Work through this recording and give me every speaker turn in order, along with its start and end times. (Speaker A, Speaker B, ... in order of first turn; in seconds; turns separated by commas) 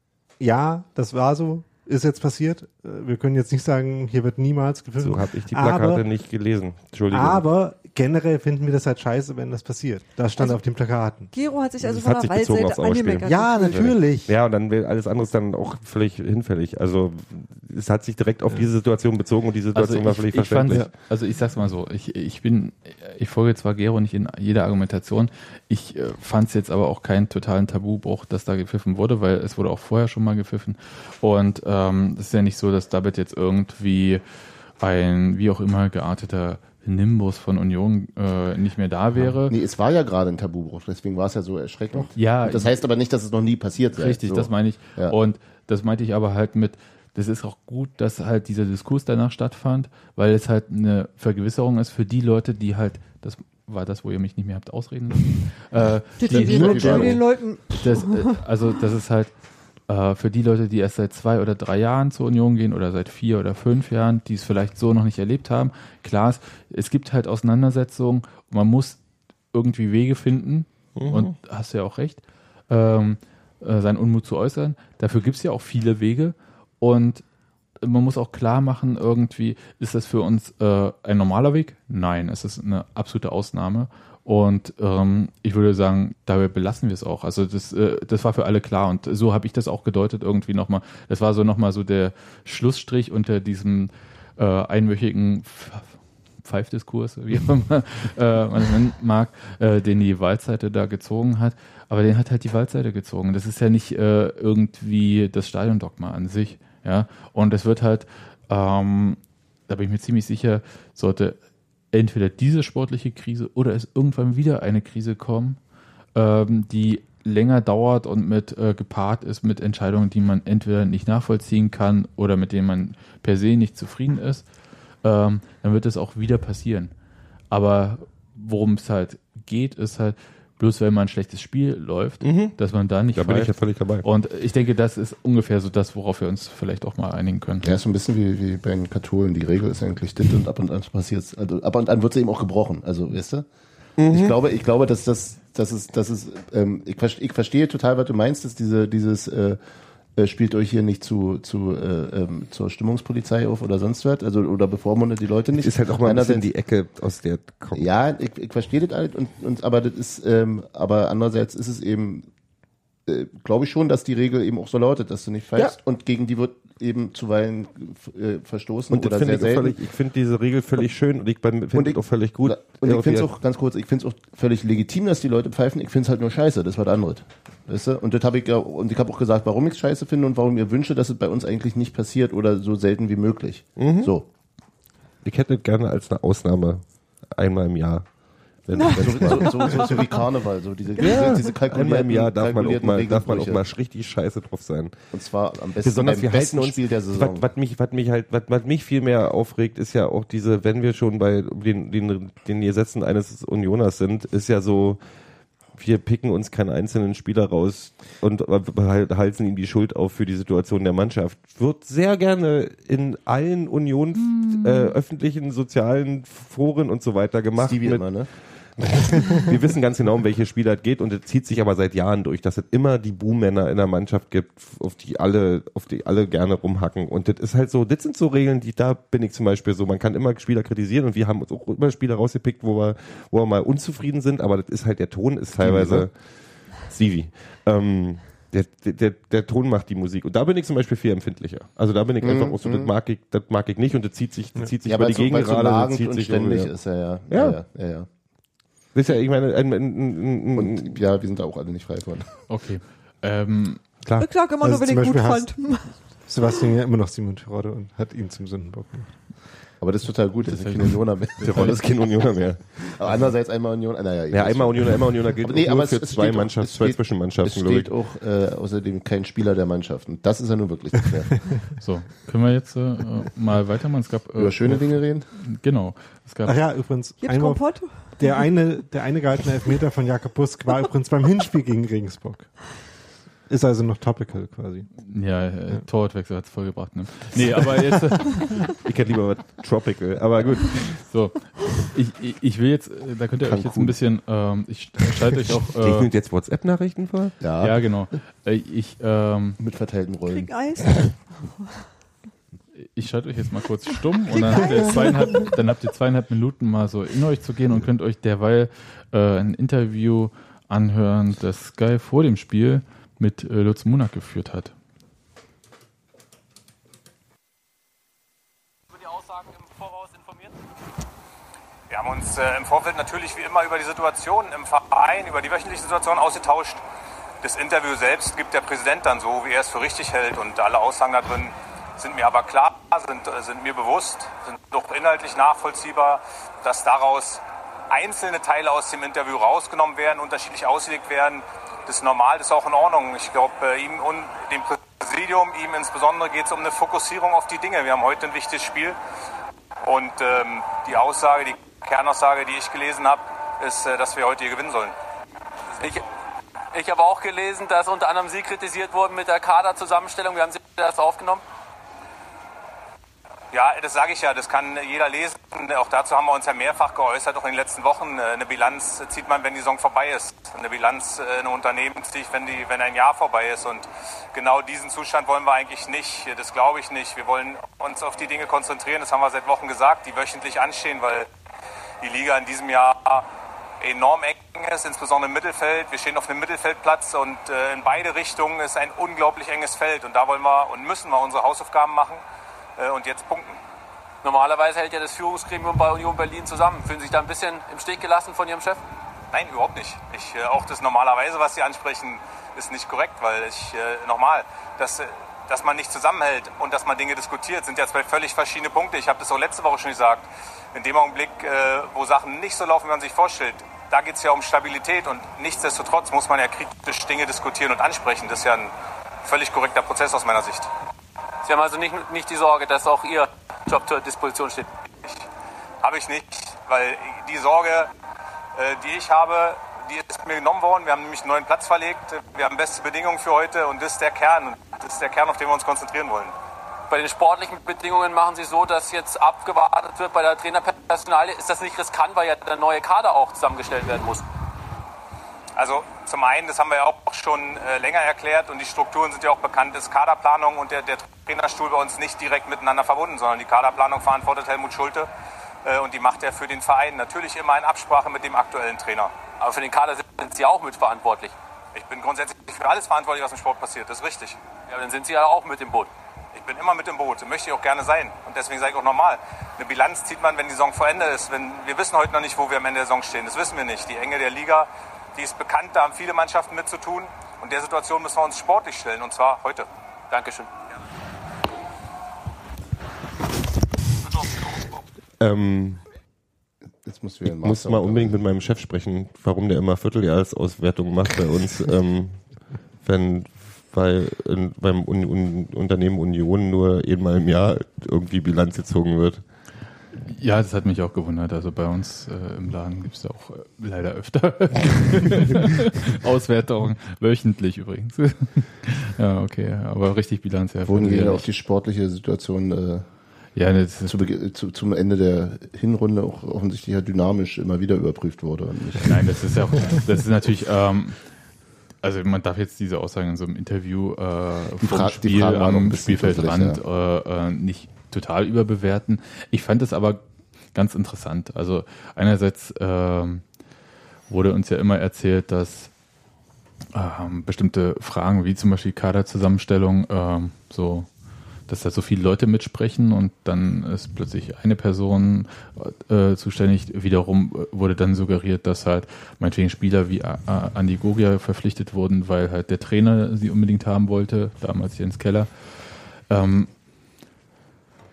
Speaker A: 0.4-6.0, Speaker B: 5.0-7.4, Speaker A: 7.1-11.3, Speaker C: 11.3-13.9, Speaker B: 11.8-20.9, Speaker A: 13.2-14.3, Speaker D: 19.7-34.2, Speaker D: 34.8-39.5, Speaker E: 39.4-45.2, Speaker D: 42.1-42.8, Speaker D: 43.9-57.2, Speaker C: 56.2-58.4, Speaker E: 56.2-57.2, Speaker D: 57.8-59.3, Speaker D: 59.9-69.0, Speaker D: 69.5-77.2, Speaker B: 71.0-71.3, Speaker D: 77.8-111.4, Speaker D: 111.9-115.6, Speaker D: 116.1-124.5, Speaker D: 125.0-126.9, Speaker D: 127.5-137.8, Speaker B: 132.2-132.6, Speaker B: 133.1-134.1, Speaker E: 137.6-143.5, Speaker B: 144.0-144.3, Speaker E: 144.0-149.6, Speaker E: 150.1-156.5, Speaker B: 155.5-157.9, Speaker E: 157.7-162.3, Speaker E: 163.1-169.8, Speaker B: 168.9-173.3, Speaker E: 171.7-184.3, Speaker B: 183.8-184.1, Speaker B: 185.2-188.1, Speaker B: 188.6-189.9, Speaker E: 188.9-193.6, Speaker C: 189.4-190.0, Speaker B: 191.0-194.9, Speaker E: 195.1-197.5, Speaker B: 195.8-205.0, Speaker B: 205.7-246.7, Speaker D: 214.3-214.8, Speaker E: 217.6-218.3, Speaker E: 235.6-236.1, Speaker E: 242.2-242.9, Speaker E: 244.8-248.1, Speaker B: 247.3-247.6, Speaker B: 248.9-251.0, Speaker E: 250.5-252.3, Speaker D: 252.5-253.8, Speaker B: 254.0-254.3, Speaker C: 254.2-256.1, Speaker A: 254.6-255.7, Speaker A: 256.2-259.2, Speaker E: 259.8-262.1, Speaker D: 260.4-261.7, Speaker B: 261.4-263.0, Speaker E: 262.8-271.5, Speaker B: 264.3-267.9, Speaker D: 271.8-276.6, Speaker E: 274.4-275.3, Speaker A: 276.4-277.6, Speaker C: 277.2-278.4, Speaker A: 278.1-282.5, Speaker A: 283.5-284.9, Speaker D: 285.0-288.6, Speaker B: 288.8-291.0, Speaker D: 290.9-296.1, Speaker E: 293.4-294.0, Speaker B: 295.8-297.4, Speaker E: 297.4-298.0, Speaker D: 297.6-299.6, Speaker E: 299.6-300.9, Speaker C: 300.3-301.8, Speaker D: 302.8-314.7, Speaker C: 304.4-305.5, Speaker F: 318.9-320.5, Speaker G: 321.9-326.8, Speaker G: 327.4-349.0, Speaker G: 349.8-354.9, Speaker F: 355.8-356.0, Speaker F: 356.7-361.4, Speaker G: 363.5-381.3, Speaker G: 382.0-383.3, Speaker G: 383.8-392.2, Speaker G: 392.8-393.6, Speaker F: 394.2-398.8, Speaker G: 399.3-420.7, Speaker F: 421.4-424.7, Speaker G: 425.8-427.9, Speaker G: 428.5-436.3, Speaker F: 436.9-444.2, Speaker G: 445.6-455.1, Speaker G: 455.6-459.2, Speaker F: 459.3-461.3, Speaker G: 461.7-464.4, Speaker F: 464.7-465.9, Speaker G: 466.3-479.7, Speaker F: 480.1-480.5, Speaker B: 485.2-485.8, Speaker E: 486.8-488.2, Speaker B: 487.2-499.2, Speaker D: 500.1-511.3, Speaker E: 510.6-512.9, Speaker D: 513.3-514.0, Speaker E: 513.8-519.0, Speaker D: 518.8-521.0, Speaker D: 521.8-533.2, Speaker E: 524.6-526.6, Speaker D: 534.1-535.7, Speaker D: 536.7-540.9, Speaker D: 541.5-556.5